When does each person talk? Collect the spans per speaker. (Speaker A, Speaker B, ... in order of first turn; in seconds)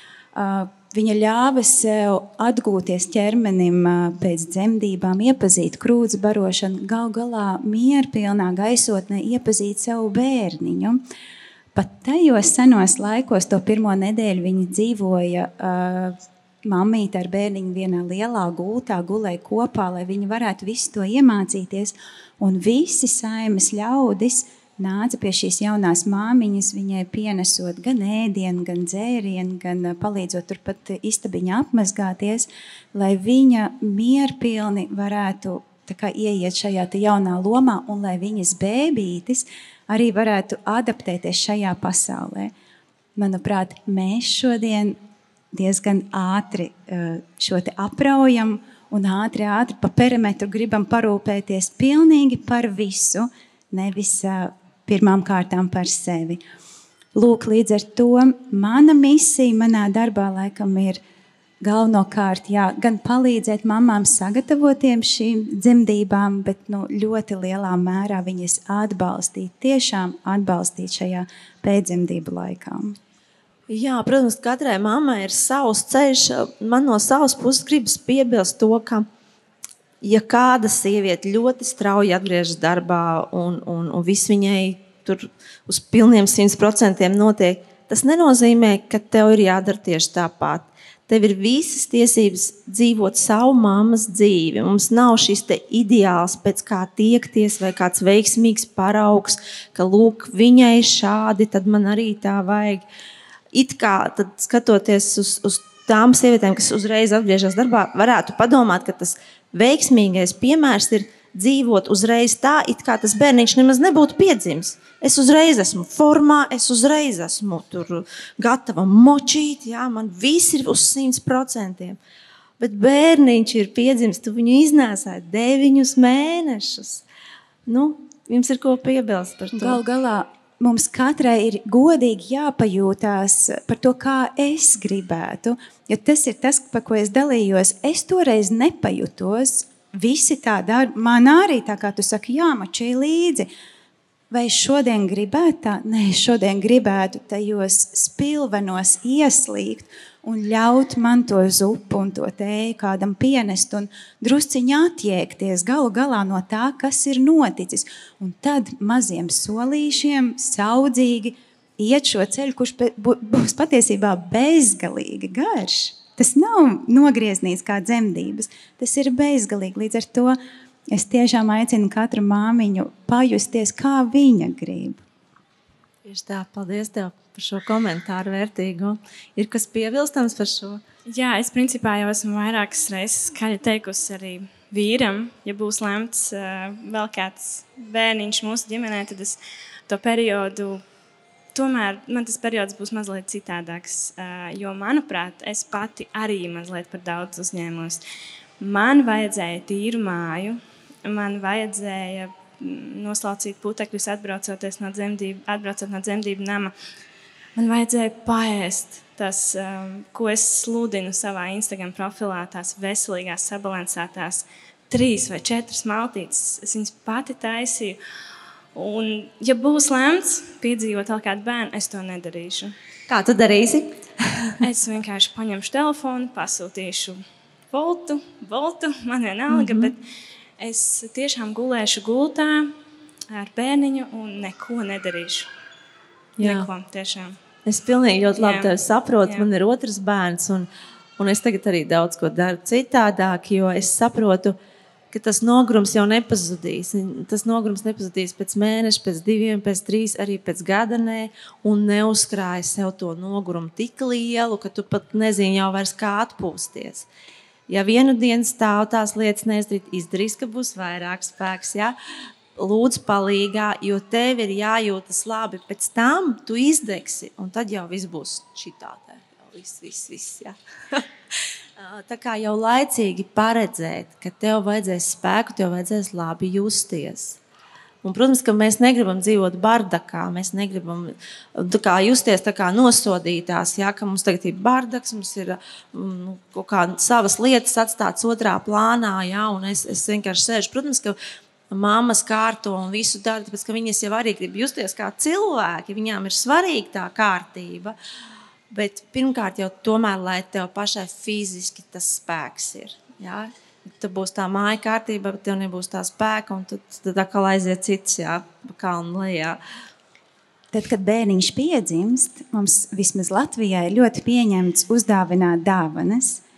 Speaker A: 0.3-11.0, 11.7-42.5, 43.1-45.0, 45.5-56.4, 57.1-61.0, 61.6-73.0, 129.5-143.5, 144.3-170.4, 170.9-175.0, 310.7-316.4
Speaker B: 73.7-79.0, 80.0-102.8, 103.5-122.0, 122.6-127.0, 127.7-129.8, 176.0-180.8, 223.1-224.6, 229.5-229.9, 236.4-236.7, 237.7-244.6, 245.1-257.1, 257.7-261.9, 262.6-271.1, 271.8-277.4, 278.0-291.2, 291.7-297.9, 298.7-309.6
Speaker C: 181.1-190.8, 191.5-198.0, 198.6-206.7, 207.6-218.0, 218.7-222.7, 224.6-230.0, 230.6-232.7, 233.3-235.5, 236.4-237.3, 238.4-238.7